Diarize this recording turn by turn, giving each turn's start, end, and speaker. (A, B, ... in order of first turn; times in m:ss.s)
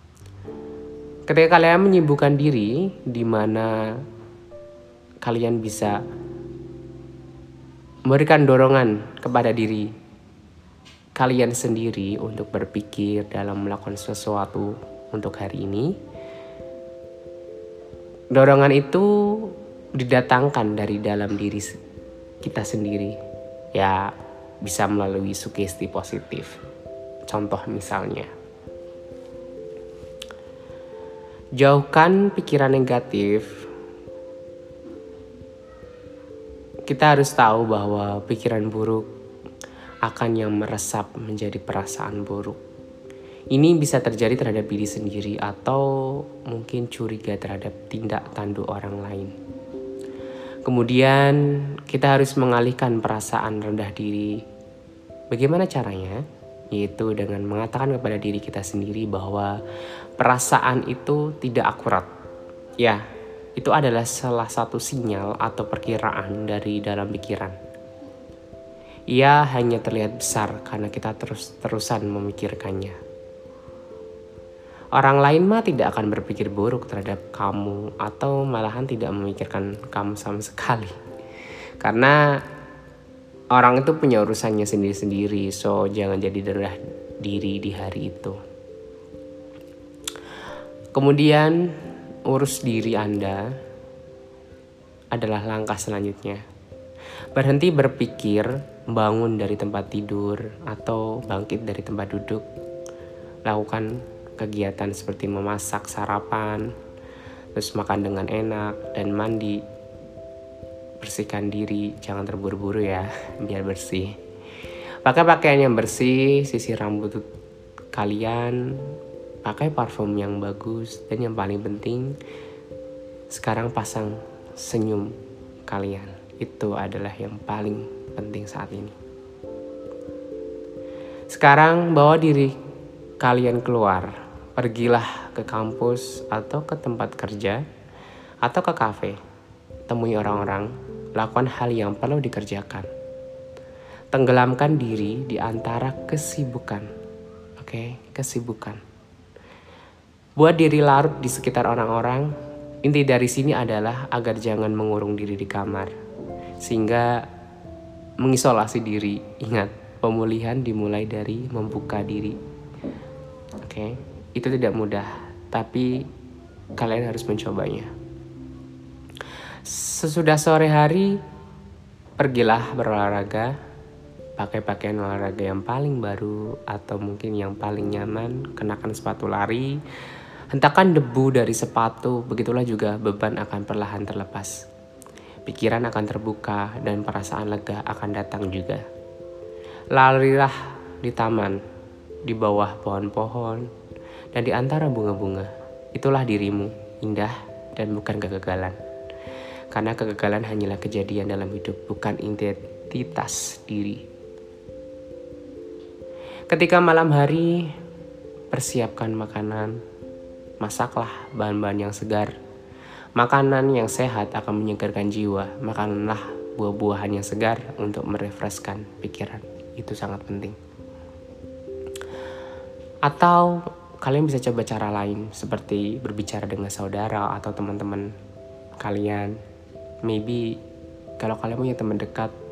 0:01.3-0:04.0 A
0:05.2-0:06.0 A
0:08.1-0:09.9 A
0:11.2-0:15.9 A
0:18.3-0:21.8 A
0:22.4-0:23.2 A
0:23.8-0:24.1 A
0:24.6-0:26.6 A
0:27.3-0:28.3 A
0:31.6-0:33.7 A
0:36.9-0:39.1 A
0:40.0-0:42.6 A
0:43.5-0:49.3 A
0:50.7-0:54.4 A
0:55.3-0:56.2 A
0:56.7-0:59.6 A
1:00.2-1:02.1 A
1:03.6-1:07.6 A
1:09.1-1:13.0 A
1:15.0-1:21.0 A
1:21.8-1:22.2 A
1:23.5-1:28.4 A
1:30.9-1:31.6 A
1:32.3-1:33.5 A
1:35.1-1:36.4 A
1:37.4-1:42.4 A
1:43.4-1:46.7 A
1:47.6-1:49.6 A
1:51.0-1:54.2 A
1:55.0-1:57.3 A
1:57.9-2:02.2 A
2:03.3-2:05.2 A
2:05.7-2:09.0 A
2:11.3-2:12.6 A
2:13.2-2:17.6 A
2:18.4-2:19.2 A
2:19.9-2:22.9 A
2:24.1-2:26.9 A
2:27.6-2:28.8 A
2:30.4-2:32.3 A
2:32.8-2:36.0 A
2:36.6-2:37.3 A
2:38.2-2:42.4 A
2:43.6-2:46.1 A
2:46.8-2:47.9 A
2:49.6-2:51.2 A
2:52.2-2:53.5 A
2:54.4-2:59.8 A
3:00.5-3:04.5 A
3:05.5-3:08.8 A
3:09.9-3:11.6 A
3:12.3-3:13.7 A
3:14.3-3:18.8 A
3:19.7-3:24.0 A
3:26.5-3:27.7 A
3:28.5-3:29.8 A
3:30.6-3:32.3 A
3:33.2-3:40.6 A
3:43.0-3:48.1 A
3:48.8-3:49.4 A
3:50.0-3:50.6 A
3:51.2-3:52.3 A